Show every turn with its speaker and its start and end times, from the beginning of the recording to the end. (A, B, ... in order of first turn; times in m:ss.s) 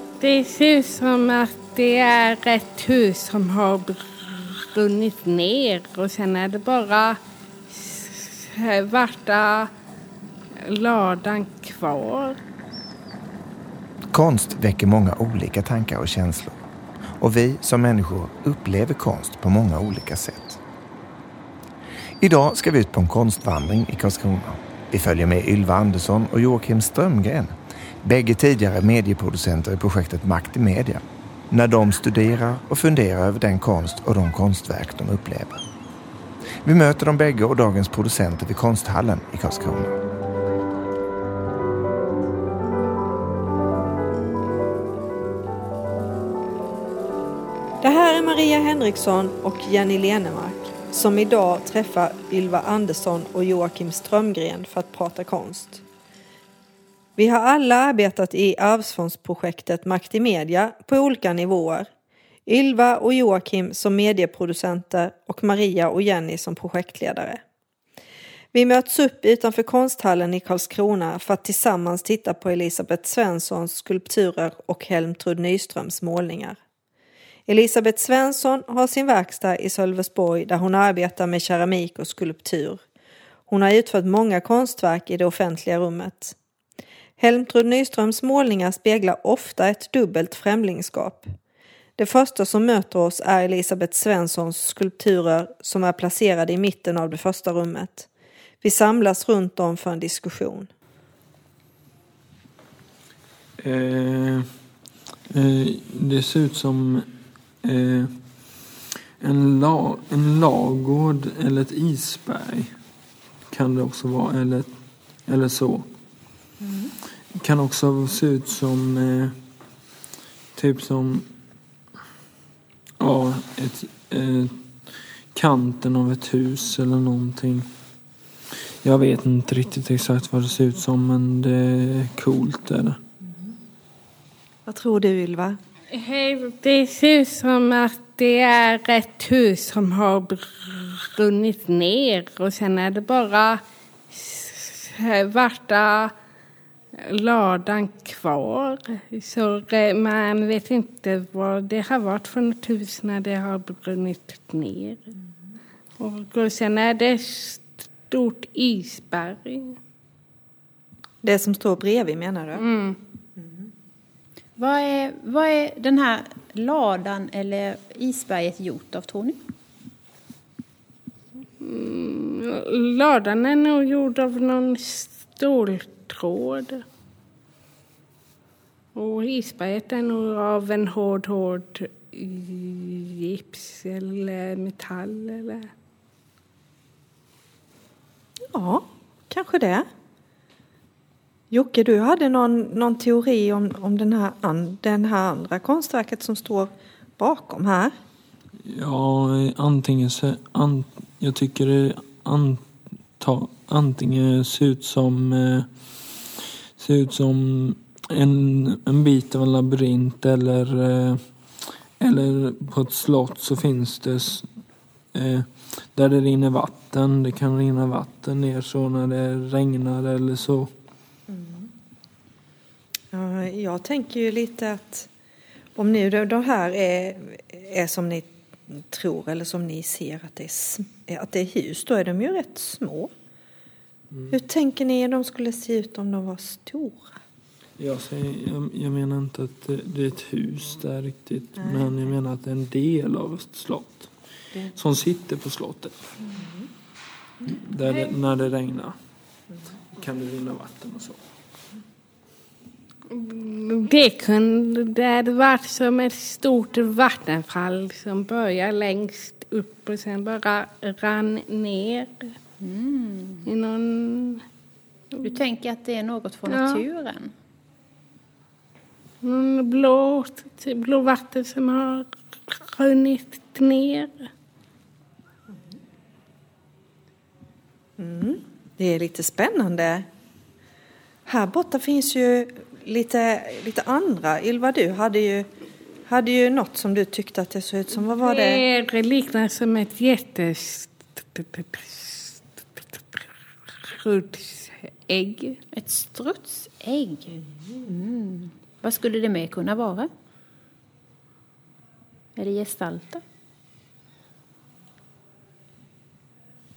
0:00.2-0:09.7 A
0:10.6-0:12.4 A
0:14.1-0:16.6 B
0:17.2-0:20.6 B
0:22.2-0:35.6 B
0:36.6-0:40.0 B
0:47.8-0:55.8 C
0:57.2-1:01.9 C
1:02.5-1:07.4 C
1:08.5-1:16.6 C
1:17.5-1:22.8 C
1:23.5-1:26.4 C
1:27.2-1:31.3 C
1:32.0-1:38.1 C
1:38.6-1:40.7 C
1:43.6-1:44.5 D
1:45.3-1:47.1 D
1:47.6-1:48.1 D
1:49.2-1:52.7 D
1:53.5-1:54.7 D
1:55.3-1:55.9 D
1:56.6-1:56.9 C
1:57.4-1:59.4 D
2:00.5-2:01.3 D
2:03.0-2:04.6 D
2:05.3-2:07.7 D
2:08.8-2:13.0 D
2:14.6-2:15.6 C
2:15.9-2:26.1 A
2:26.9-2:35.1 A
2:36.0-2:39.8 A
2:41.2-2:42.6 C
2:42.6-2:43.0 A
2:43.4-2:43.7 C
2:44.6-2:49.4 E
2:51.6-2:56.8 A
2:58.9-3:05.7 A
3:08.5-3:09.9 C
3:11.5-3:17.9 C
3:18.6-3:22.6 D
3:23.2-3:25.7 D
3:26.8-3:31.2 D
3:32.0-3:34.5 D
3:35.1-3:40.7 D
3:41.3-3:41.7 C
3:43.1-3:45.1 C
3:45.8-3:53.1 C
3:54.3-3:57.1 C
3:57.8-4:04.1 D
4:01.6-4:01.9 C
4:04.7-4:06.1 D
4:06.3-4:06.7 C
4:07.4-4:09.0 D
4:09.9-4:11.2 D
4:13.1-4:22.3 A
4:22.6-4:23.5 E
4:23.4-4:24.4 A
4:25.2-4:27.3 E
4:26.4-4:26.8 A
4:29.2-4:34.3 A
4:38.0-4:40.1 C
4:41.2-4:45.5 C
4:46.0-4:48.6 C
4:48.1-4:55.6 A
4:55.7-4:57.4 E
4:57.9-5:00.1 E
5:02.4-5:03.2 E